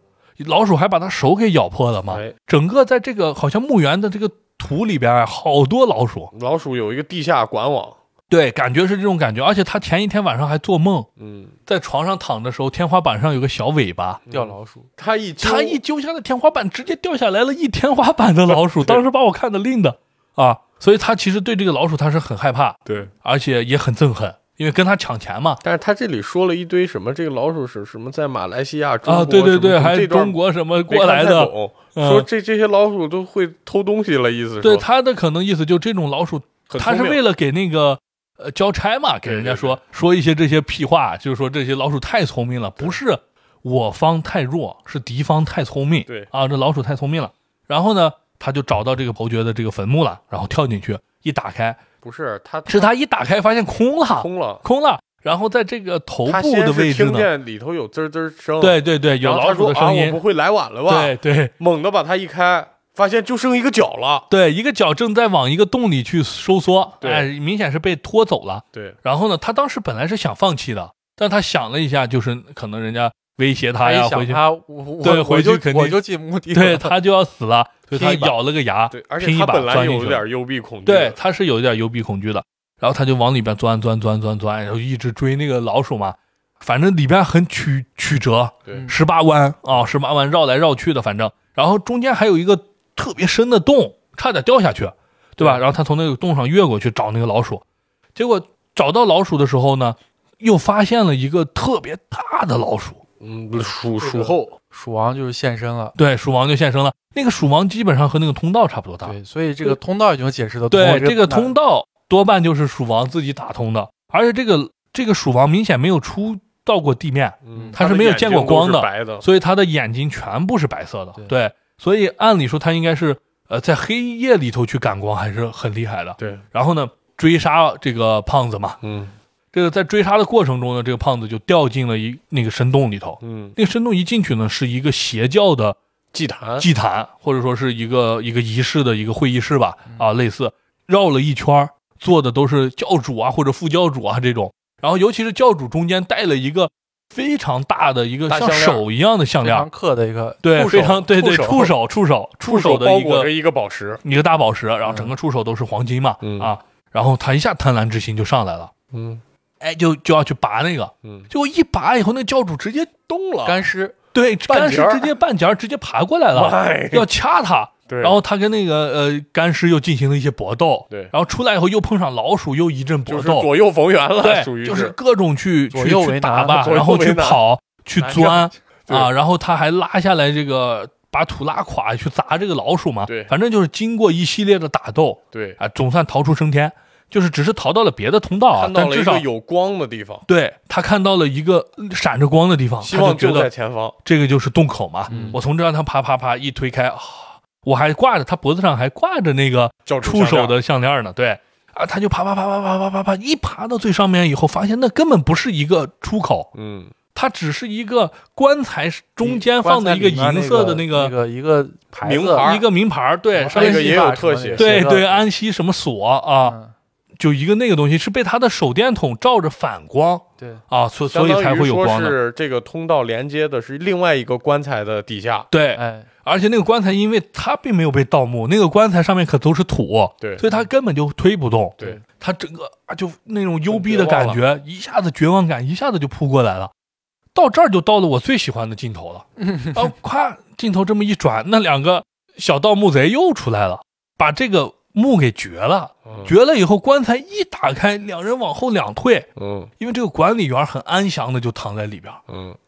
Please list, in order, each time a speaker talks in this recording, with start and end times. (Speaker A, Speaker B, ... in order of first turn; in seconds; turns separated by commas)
Speaker A: 0.4-6.3, Speaker B: 2.1-2.3, Speaker B: 6.3-8.0, Speaker A: 8.3-11.1, Speaker B: 11.2-11.5, Speaker A: 11.7-14.2, Speaker B: 14.3-15.8, Speaker C: 14.3-14.9, Speaker A: 15.4-25.6, Speaker B: 18.5-19.0, Speaker B: 25.6-30.4, Speaker A: 29.1-32.3, Speaker B: 30.9-34.8, Speaker A: 34.6-51.8, Speaker B: 36.7-37.2, Speaker B: 39.2-39.8, Speaker B: 52.0-52.9, Speaker A: 52.7-57.3, Speaker B: 54.2-54.6, Speaker B: 56.2-64.3, Speaker A: 58.6-60.2, Speaker A: 60.9-61.5, Speaker A: 64.3-74.4, Speaker B: 67.0-67.3, Speaker C: 73.8-77.0, Speaker A: 75.0-76.0, Speaker A: 76.5-80.2, Speaker C: 77.9-78.3, Speaker B: 78.9-81.2, Speaker A: 80.8-97.6, Speaker A: 98.1-103.0, Speaker B: 103.2-104.5, Speaker C: 104.0-106.0, Speaker A: 106.0-109.8, Speaker C: 109.0-111.5, Speaker A: 110.7-128.8, Speaker B: 117.4-119.2, Speaker B: 126.2-126.4, Speaker B: 128.8-129.1, Speaker A: 129.5-135.8, Speaker B: 133.2-133.5, Speaker B: 136.1-136.7, Speaker A: 136.6-149.7, Speaker B: 148.3-148.8, Speaker C: 149.4-151.7, Speaker A: 150.4-153.3, Speaker B: 152.4-154.0, Speaker A: 154.0-158.7, Speaker C: 154.8-155.1, Speaker B: 156.2-156.5, Speaker B: 158.9-159.2, Speaker A: 159.6-162.9, Speaker B: 161.0-161.3, Speaker B: 163.1-163.7, Speaker C: 163.4-163.9, Speaker A: 164.1-173.5, Speaker B: 164.5-165.1, Speaker B: 166.3-167.1, Speaker B: 167.9-168.2, Speaker B: 173.1-174.9, Speaker A: 174.2-189.2, Speaker C: 175.7-176.7, Speaker B: 176.5-177.4, Speaker C: 178.0-178.5, Speaker B: 183.1-183.3, Speaker B: 185.3-185.6, Speaker B: 188.5-190.2, Speaker A: 190.3-193.5, Speaker B: 192.8-193.9, Speaker A: 194.0-206.5, Speaker C: 195.1-195.4, Speaker B: 195.1-195.3, Speaker B: 199.8-200.5, Speaker B: 206.5-206.9, Speaker A: 207.1-211.1, Speaker C: 209.2-212.5, Speaker B: 212.0-212.6, Speaker A: 212.3-216.6, Speaker C: 213.3-215.1, Speaker B: 213.5-215.2, Speaker C: 216.4-216.7, Speaker A: 217.2-222.2, Speaker B: 221.1-225.5, Speaker A: 225.5-236.7, Speaker C: 225.8-226.1, Speaker B: 233.7-234.4, Speaker A: 237.3-249.3, Speaker B: 246.1-246.3, Speaker B: 249.4-249.7, Speaker A: 249.8-252.2, Speaker B: 252.3-252.6